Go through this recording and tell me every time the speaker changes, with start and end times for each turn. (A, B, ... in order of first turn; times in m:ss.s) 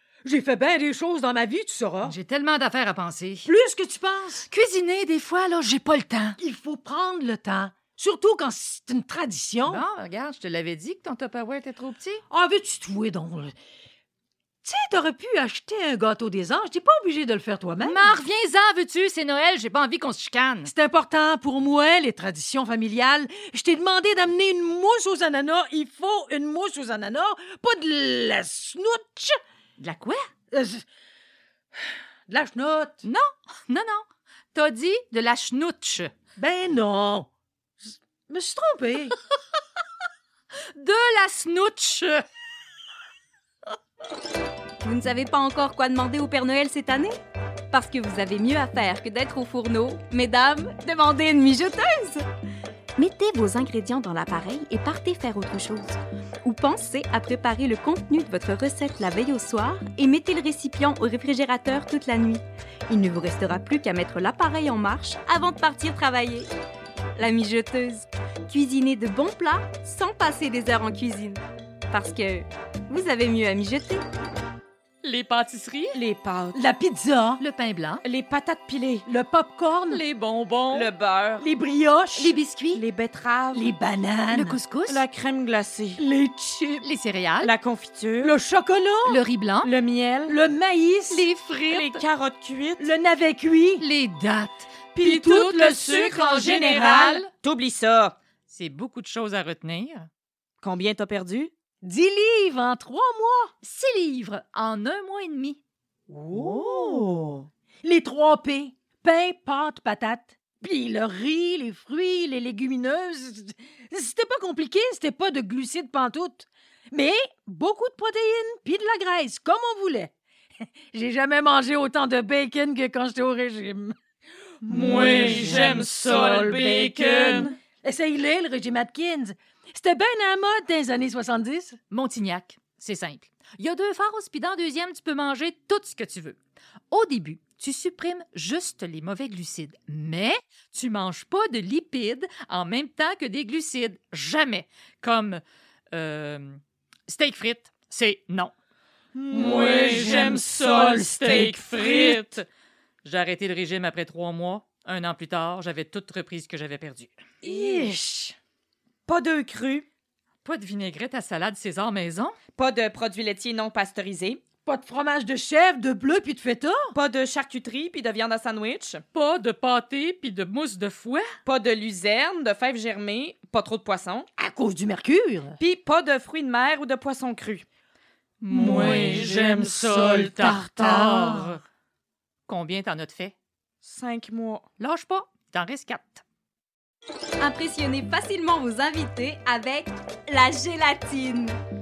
0:00.2-0:02.2 A
0:02.0-0:03.5 B
0:03.4-0:04.5 A
0:04.4-0:06.4 B
0:06.4-0:09.8 A
0:09.6-0:12.2 B
0:12.3-0:13.5 A
0:14.6-0:18.2 A
0:17.8-0:20.7 B
0:20.6-0:29.4 A
0:29.8-0:30.3 B
0:30.5-0:30.8 A
0:32.3-0:33.0 A
0:33.0-0:36.1 B
0:36.4-0:37.3 A
0:37.8-0:39.2 A
0:40.7-0:42.2 B
0:44.8-0:47.2 C
0:47.7-0:52.2 C
0:53.0-1:06.5 C
1:07.2-1:14.0 C
1:15.0-1:16.0 B
1:15.9-1:16.6 D
1:16.5-1:17.4 A
1:17.4-1:18.0 B
1:18.0-1:19.0 D
1:19.0-1:20.0 A
1:19.9-1:20.9 B
1:20.7-1:21.4 D
1:21.4-1:22.4 A
1:22.2-1:22.8 B
1:22.7-1:23.7 D
1:23.5-1:24.6 A
1:24.3-1:25.0 B
1:24.9-1:26.0 D
1:26.0-1:26.9 A
1:26.8-1:27.5 B
1:27.4-1:28.3 D
1:28.2-1:29.2 A
1:29.0-1:29.7 B
1:29.6-1:30.4 D
1:30.3-1:31.3 A
1:31.1-1:32.0 B
1:31.7-1:32.9 D
1:32.8-1:33.8 A
1:33.8-1:34.7 B
1:34.9-1:38.2 D
1:35.0-1:37.1 A
1:35.2-1:37.2 B
1:38.5-1:40.1 B
1:40.6-1:41.5 D
1:41.8-1:43.5 A
1:43.6-1:45.6 B
1:46.1-1:47.2 A
1:46.3-1:47.3 D
1:47.8-2:00.1 A
2:00.9-2:04.0 A
2:04.6-2:11.8 A
2:04.7-2:07.5 B
2:06.0-2:07.5 D
2:11.9-2:16.4 B
2:16.9-2:28.5 B
2:29.2-2:32.2 D
2:29.3-2:31.6 A
2:29.3-2:32.4 B
2:33.0-2:37.1 B
2:37.4-2:38.4 A
2:37.4-2:37.9 D
2:39.1-2:39.8 D
2:40.4-2:42.4 B
2:42.6-2:44.4 D
2:44.6-2:46.9 A
2:46.9-2:49.0 D
2:49.1-2:51.3 B
2:51.4-2:54.3 D
2:54.4-2:55.6 A
2:55.6-2:57.6 D
2:58.4-3:01.6 B
2:58.5-3:01.5 A
2:58.5-2:59.4 D
3:00.0-3:00.6 D
3:02.5-3:03.3 B
3:03.8-3:04.6 D
3:04.8-3:06.2 B
3:07.4-3:11.6 C